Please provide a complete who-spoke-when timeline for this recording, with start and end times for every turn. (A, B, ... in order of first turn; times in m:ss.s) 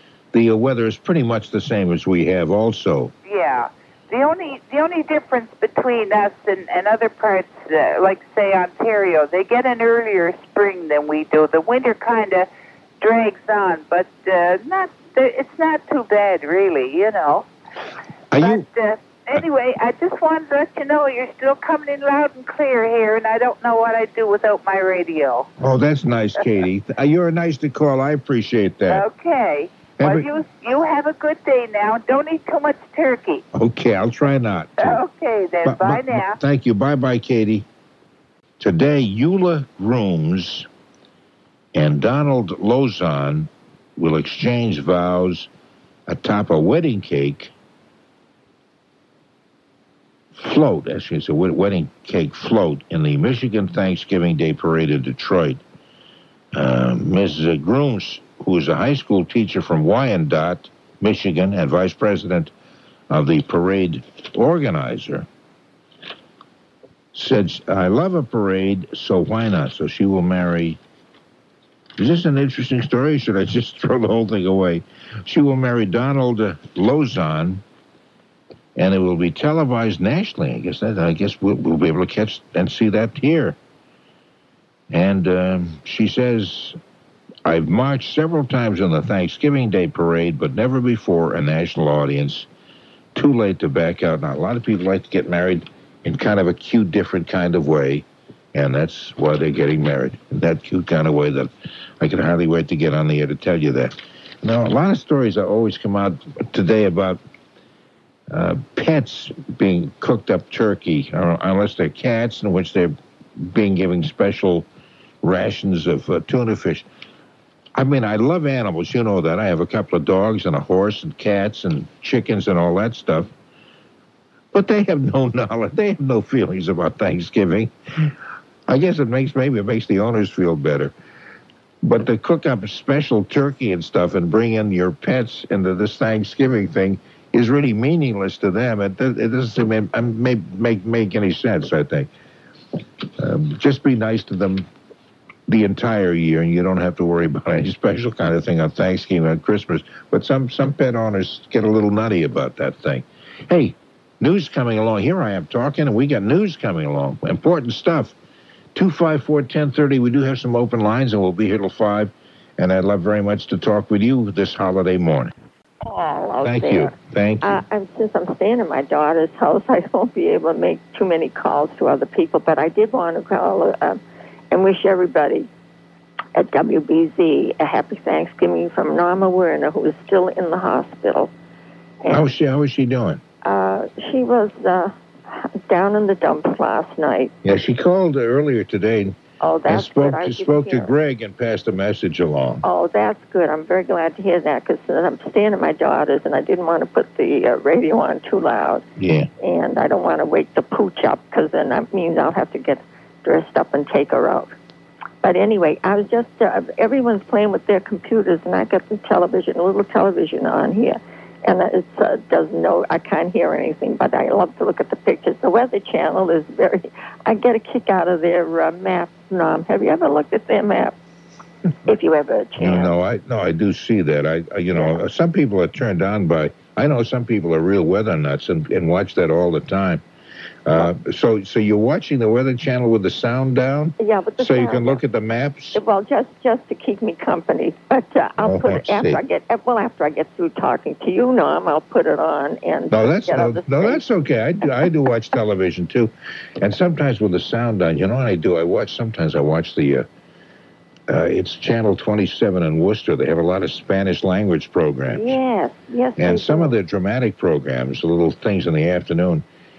0:00.3-0:03.1 A
0:03.3-0:12.5 B
0:13.0-0:17.5 B
0:18.3-0:18.6 A
0:18.4-0:25.5 B
0:25.6-0:29.1 A
0:28.9-0:33.4 B
0:30.0-0:30.3 A
0:33.5-0:35.0 A
0:34.8-0:36.4 B
0:35.6-0:37.6 A
0:38.6-0:40.7 A
0:41.7-0:45.5 A
0:46.1-0:47.5 A
0:50.4-0:55.6 A
0:56.5-1:02.5 A
1:03.1-1:05.3 A
1:07.1-1:10.8 A
1:12.0-1:17.6 A
1:18.8-1:23.6 A
1:24.9-1:26.8 A
1:27.4-1:32.5 A
1:33.1-1:47.2 A
1:48.3-1:54.7 A
1:55.2-1:56.9 A
1:57.7-2:03.3 A
2:04.5-2:08.1 A
2:08.7-2:10.9 A
2:11.8-2:22.1 A
2:23.2-2:24.7 A
2:25.5-2:38.1 A
2:38.7-2:45.3 A
2:45.8-2:54.0 C
2:46.4-2:47.6 A
2:54.5-2:55.5 C
2:56.4-3:01.3 C
3:02.1-3:03.2 A
3:03.4-3:07.3 C
3:07.4-3:09.2 A
3:09.4-3:10.9 C
3:09.7-3:12.6 A
3:12.6-3:18.8 C
3:19.0-3:19.3 A
3:19.4-3:24.5 C
3:25.2-3:40.9 C
3:41.9-3:42.9 C
3:42.6-3:50.0 A
3:50.6-3:55.8 A
3:54.0-3:55.0 C
3:55.7-4:04.0 C
3:58.4-3:59.2 A
4:02.9-4:10.1 A
4:11.1-4:15.4 A
4:15.1-4:16.7 C
4:16.2-4:19.4 A